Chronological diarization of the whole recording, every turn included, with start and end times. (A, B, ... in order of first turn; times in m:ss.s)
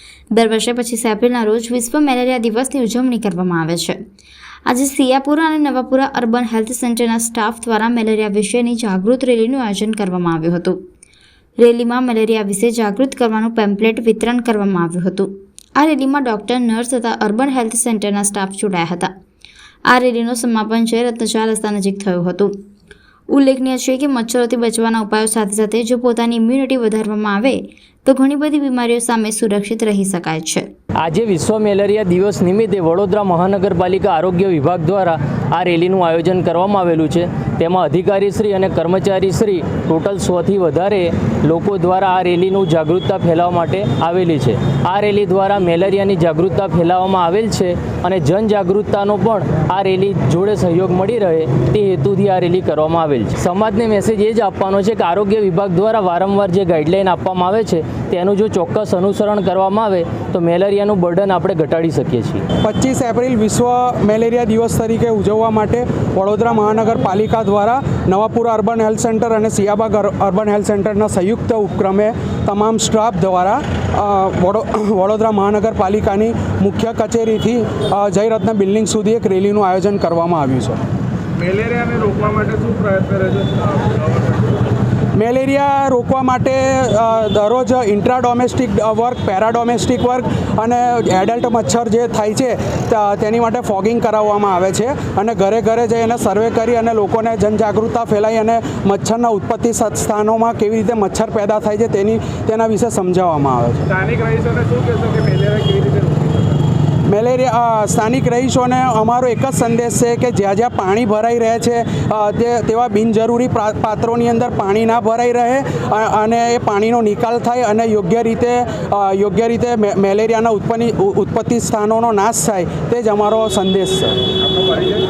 0:00.3-0:04.0 A
0:04.7-0:10.8 A
0:11.6-0:19.1 A
0:19.9-0:22.5 A
0:23.3-0:30.7 A
0:31.0-1:02.4 B
1:02.6-1:20.8 C
1:21.4-1:24.6 D
1:25.2-1:43.9 C
1:43.9-1:46.6 D
1:47.1-2:04.2 C